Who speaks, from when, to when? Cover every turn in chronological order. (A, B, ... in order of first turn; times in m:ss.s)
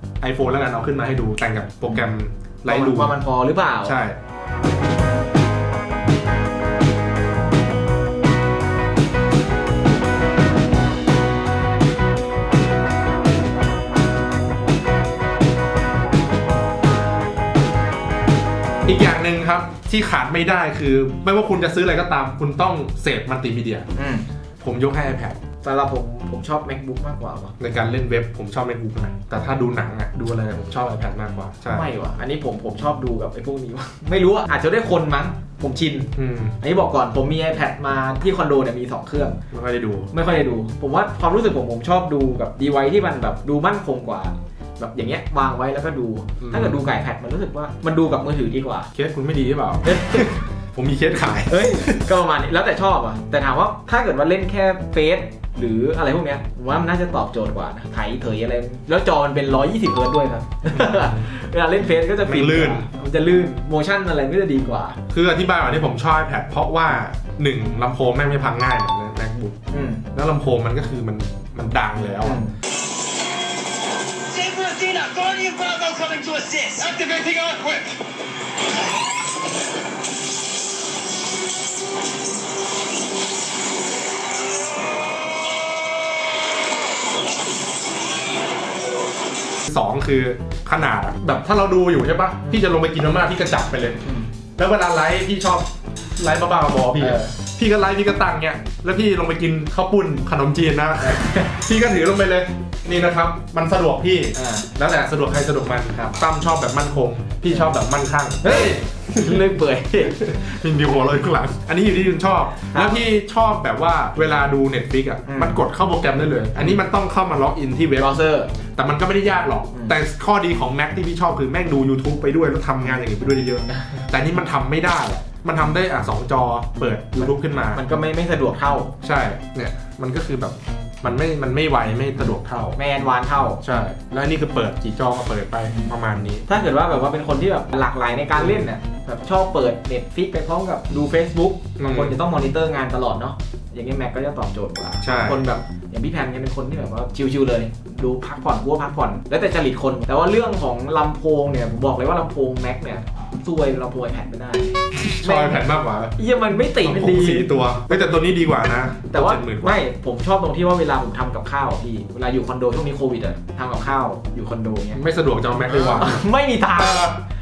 0:00.2-0:03.1 A
0:02.6-0:04.0 B
0:03.8-0:04.2 A
0:18.8-0:23.9 A
0:23.9-0:24.2 B
0:24.6-0:25.4 A
0:25.6-0:27.5 B
0:27.6-0:31.9 A
0:31.7-0:39.4 B
0:36.2-0:36.6 A
0:39.5-0:40.1 A
0:40.1-0:48.9 B
0:46.4-0:46.8 A
0:48.9-0:52.0 A
0:49.8-0:50.3 B
0:51.5-1:05.0 B
1:00.7-1:01.3 A
1:02.2-1:02.9 A
1:05.1-1:12.4 A
1:09.7-1:10.0 B
1:12.2-1:12.6 B
1:14.1-1:18.0 C
1:29.7-1:34.0 A
1:34.0-1:34.3 B
1:34.6-1:58.2 A
1:37.0-1:37.3 B
1:41.0-1:41.5 B
1:44.3-1:44.7 B
1:47.5-1:47.7 B
1:48.4-1:50.4 B
1:52.7-1:53.0 B
1:55.2-1:55.6 B
1:56.6-1:56.8 B
1:58.0-1:58.5 B
1:58.7-2:07.8 A
1:59.7-2:00.0 B
2:07.2-2:08.9 B
2:09.0-2:12.8 A
2:12.8-2:13.6 B
2:13.6-2:16.4 A
2:16.5-2:38.3 B
2:18.4-2:18.7 A
2:21.8-2:22.2 A
2:25.0-2:25.4 A
2:35.0-2:36.2 A
2:36.8-2:39.8 A
2:39.1-2:45.0 B
2:44.9-2:46.2 A
2:45.7-2:47.1 B
2:46.7-2:47.2 A